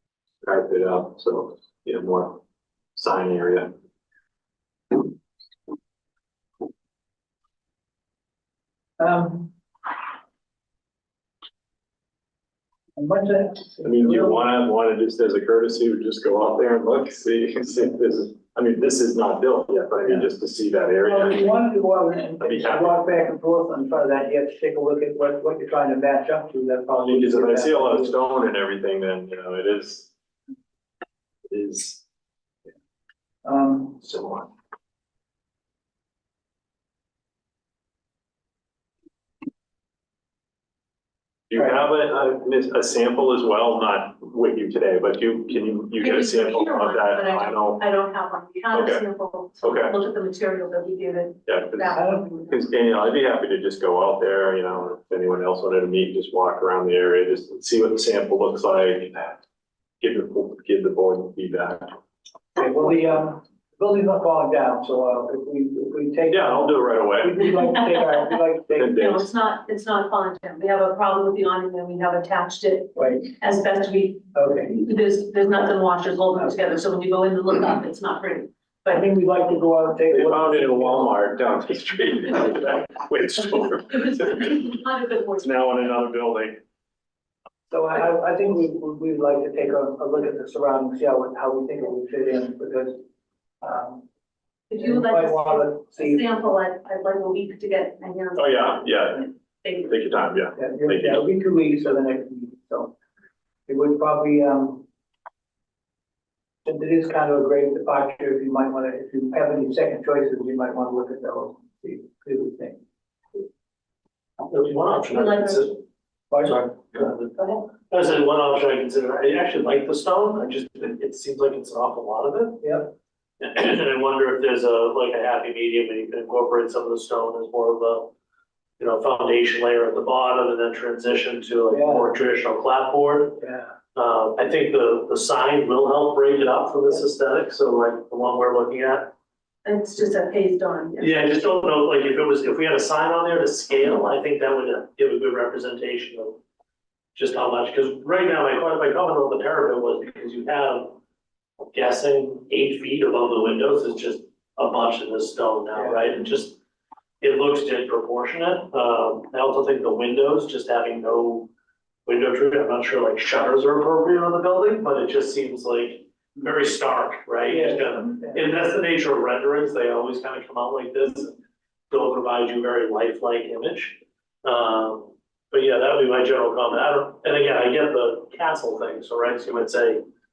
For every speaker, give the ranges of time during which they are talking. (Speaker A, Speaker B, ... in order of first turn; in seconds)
Speaker A: 0.4-2.4, 2.9-3.7, 13.8-21.5, 22.4-23.0, 27.0-30.1, 31.5-32.0, 34.0-34.5, 41.5-47.8, 48.7-50.0, 51.5-59.4, 60.0-61.9, 66.3-67.4, 68.7-69.3, 80.1-84.8, 85.4-86.6, 98.3-99.3, 99.9-101.2
Speaker B: 9.0-9.5, 13.0-14.6, 20.0-20.3, 21.1-28.2, 33.4-34.2, 51.9-52.2, 62.6-68.9, 73.0-73.3, 74.3-74.8, 78.9-81.2, 87.7-93.0, 93.6-94.1, 94.8-96.2, 100.6-103.0, 103.7-104.8, 106.7-112.8, 116.3-117.1, 122.6-122.9, 131.7-132.1, 133.4-133.7, 155.7-156.2, 167.4-168.6
Speaker C: 46.0-52.7, 68.8-79.1, 83.9-85.8, 94.7-98.9, 99.6-100.0, 115.1-115.8, 139.6-141.5
Speaker D: 114.5-115.8, 116.4-122.6, 123.4-128.1, 128.8-133.4, 133.9-139.1, 141.0-146.4, 147.1-150.9, 151.7-156.6, 157.2-161.5, 162.1-180.0